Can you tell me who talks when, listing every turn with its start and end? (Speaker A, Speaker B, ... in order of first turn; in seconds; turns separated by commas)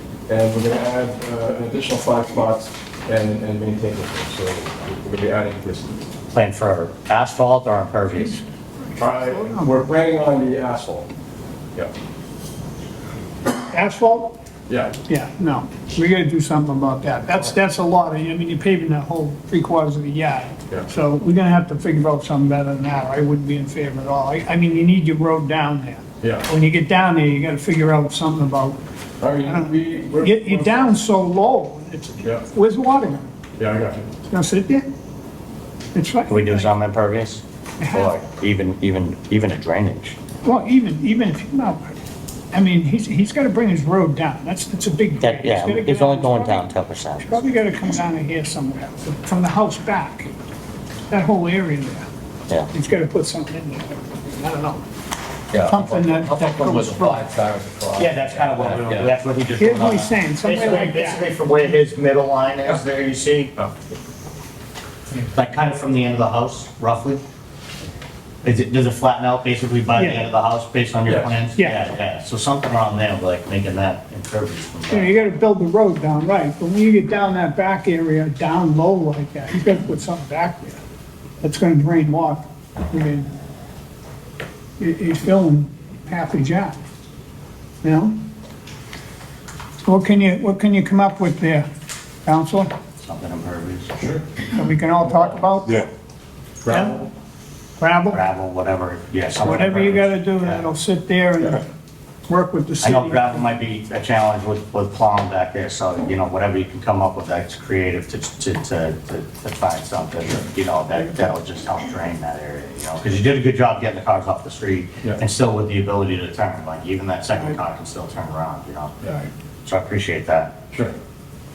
Speaker A: 0.3-6.0, Speaker B: 6.3-8.4, Speaker C: 8.9-9.8, Speaker A: 9.0-11.1, Speaker C: 13.7-14.4, Speaker A: 14.7-14.9, Speaker C: 15.1-28.8, Speaker A: 26.2-26.5, Speaker A: 29.2-31.0, Speaker C: 29.4-33.2, Speaker A: 33.6-34.1, Speaker C: 34.3-34.9, Speaker C: 35.9-36.7, Speaker B: 36.3-40.2, Speaker C: 37.8-38.1, Speaker C: 40.4-42.0, Speaker C: 42.5-46.6, Speaker B: 45.2-47.3, Speaker C: 47.2-50.3, Speaker C: 51.1-52.1, Speaker C: 52.7-54.8, Speaker D: 55.5-59.1, Speaker C: 55.6-57.2, Speaker B: 58.0-63.6, Speaker C: 59.6-61.2, Speaker B: 65.2-67.2, Speaker B: 68.4-75.2, Speaker C: 70.0-70.3, Speaker A: 71.1-71.3, Speaker C: 74.9-80.8, Speaker C: 81.4-83.3, Speaker C: 84.8-86.8, Speaker C: 87.8-88.1, Speaker C: 89.8-91.7, Speaker C: 92.3-92.7, Speaker B: 93.0-93.9, Speaker A: 94.0-94.2, Speaker C: 94.5-95.8, Speaker A: 96.7-97.1, Speaker C: 96.7-97.0, Speaker C: 97.8-98.2, Speaker B: 98.1-100.7, Speaker C: 99.4-101.7, Speaker C: 102.3-103.5, Speaker B: 102.8-119.0, Speaker B: 119.6-120.5, Speaker A: 120.7-121.0